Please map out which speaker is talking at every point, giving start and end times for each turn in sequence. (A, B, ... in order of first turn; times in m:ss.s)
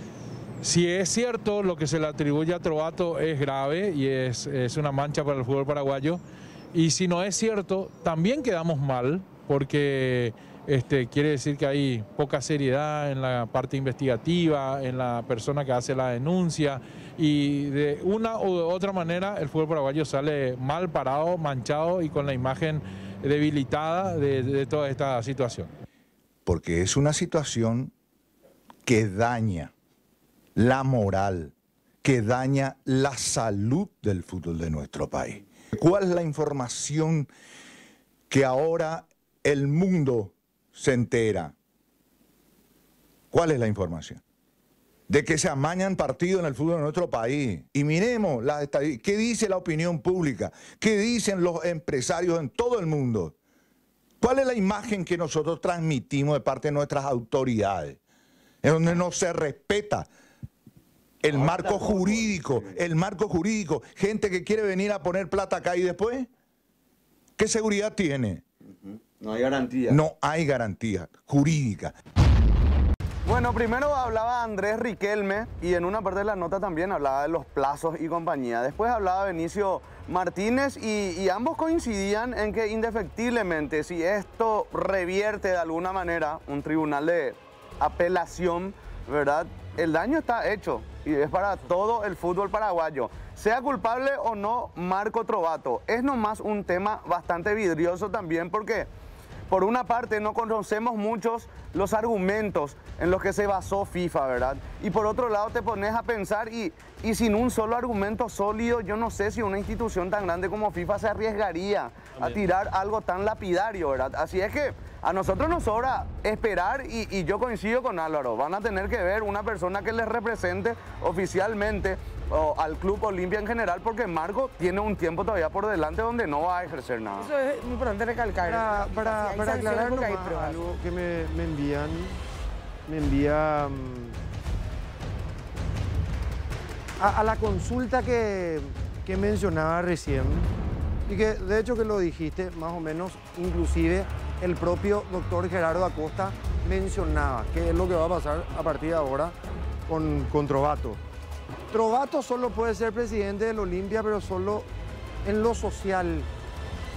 0:00.6-0:06.2 A
0:06.7-0:25.7 A
0:26.4-0:27.9 B
0:28.8-0:29.7 B
0:30.6-0:37.3 B
0:38.3-0:41.5 B
0:43.3-0:44.2 B
0:45.1-0:53.3 B
0:54.2-0:58.0 B
0:58.6-1:00.1 B
1:01.2-1:06.3 B
1:01.3-1:02.8 C
1:07.4-1:08.4 B
1:08.7-1:10.0 C
1:09.9-1:11.9 B
1:13.2-1:38.9 C
1:39.5-2:07.3 C
2:07.2-2:10.6 D
2:08.4-2:12.2 E
2:12.9-2:14.2 E
2:17.0-2:20.5 E
2:21.1-2:29.3 E
2:29.9-2:31.0 E
2:31.7-2:34.7 E
2:35.2-2:36.3 E